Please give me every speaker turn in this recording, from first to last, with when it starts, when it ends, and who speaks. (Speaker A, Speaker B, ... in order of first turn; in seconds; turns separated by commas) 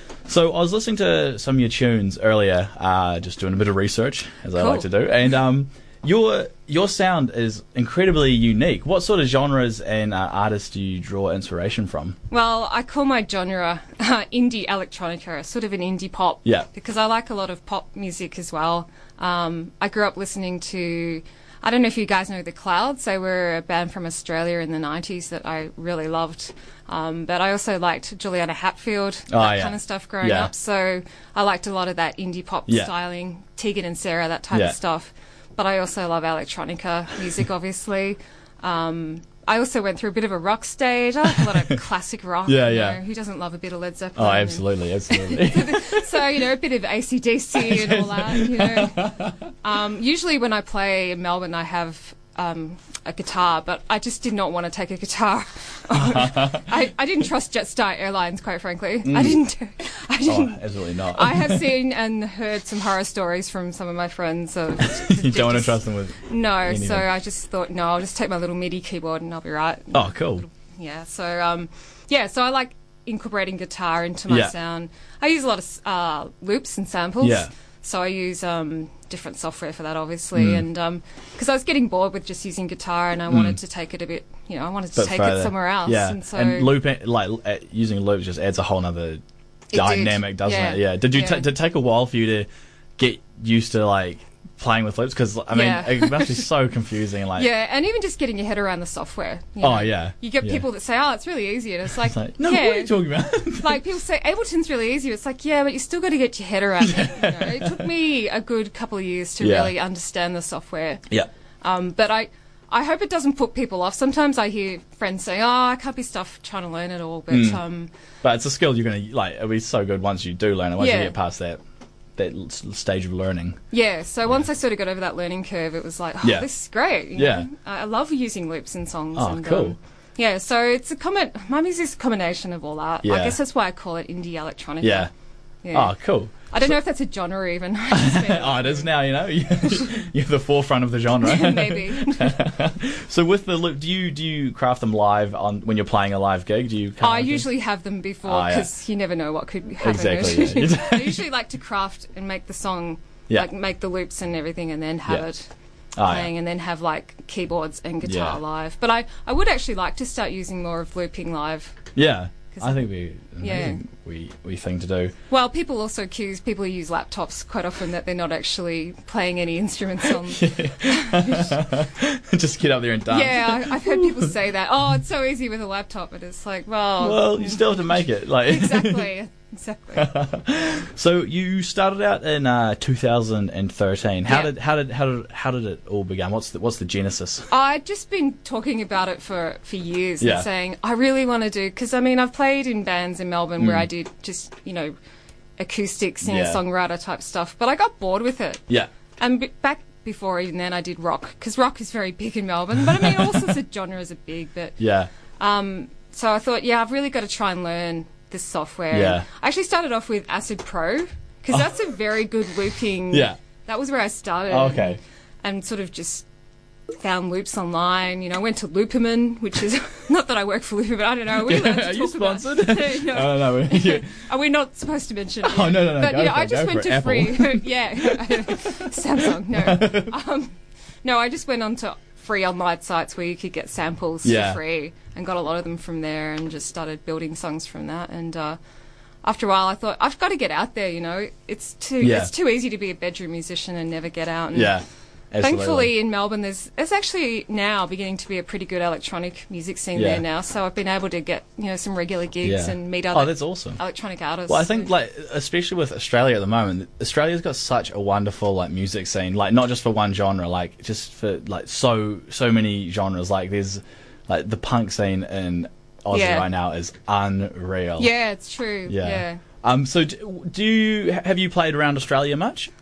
Speaker A: 0.3-12.2, Speaker B: 4.5-4.8, Speaker B: 12.3-86.8, Speaker A: 29.3-30.5, Speaker A: 42.5-43.0, Speaker A: 44.2-46.2, Speaker A: 47.6-49.5, Speaker A: 55.9-56.7, Speaker A: 59.0-59.4, Speaker A: 60.2-61.8, Speaker A: 64.8-67.1, Speaker A: 69.9-70.4, Speaker A: 74.3-74.5, Speaker A: 77.2-77.5, Speaker A: 80.3-80.6, Speaker A: 83.3-83.6, Speaker A: 84.9-89.2, Speaker B: 89.7-91.5, Speaker A: 89.7-97.5, Speaker B: 95.5-96.5, Speaker B: 97.3-111.1, Speaker A: 99.6-100.6, Speaker A: 102.0-103.8, Speaker A: 106.8-107.9, Speaker A: 109.4-109.7, Speaker B: 111.6-117.9, Speaker A: 117.3-117.6, Speaker A: 118.2-121.6, Speaker B: 120.8-121.2, Speaker A: 122.2-123.6, Speaker B: 123.7-135.1, Speaker A: 126.2-126.5, Speaker A: 127.1-127.5, Speaker A: 129.1-129.8, Speaker A: 133.0-133.4, Speaker A: 134.8-135.1, Speaker B: 135.6-135.9, Speaker A: 135.7-136.7, Speaker B: 136.5-138.9, Speaker A: 137.9-147.5, Speaker B: 141.2-142.4, Speaker B: 147.0-155.5, Speaker A: 148.2-148.7, Speaker A: 149.8-151.2, Speaker A: 155.9-156.3, Speaker B: 156.0-161.9, Speaker A: 158.0-158.4, Speaker A: 161.9-165.1, Speaker B: 162.5-162.8, Speaker B: 163.4-163.8, Speaker B: 165.3-171.6, Speaker A: 170.3-174.3, Speaker B: 173.1-180.1, Speaker A: 177.0-179.1, Speaker A: 180.0-187.5, Speaker B: 184.2-184.5, Speaker B: 187.5-194.9, Speaker A: 190.2-190.5, Speaker A: 193.6-193.8, Speaker B: 195.6-198.6, Speaker A: 196.2-196.6, Speaker B: 199.2-204.8, Speaker A: 204.8-205.1, Speaker B: 205.4-216.2, Speaker A: 208.9-209.2, Speaker A: 213.1-213.4, Speaker A: 214.5-215.0, Speaker B: 217.0-238.6, Speaker A: 221.3-224.1, Speaker A: 225.4-228.7, Speaker A: 229.5-230.1, Speaker A: 234.2-234.6, Speaker B: 239.2-244.8, Speaker A: 242.0-242.3, Speaker A: 244.5-245.9, Speaker B: 245.4-254.9, Speaker A: 249.9-250.2, Speaker A: 252.4-253.8, Speaker A: 254.5-268.1, Speaker B: 266.1-266.5, Speaker B: 268.0-269.4, Speaker A: 268.9-272.7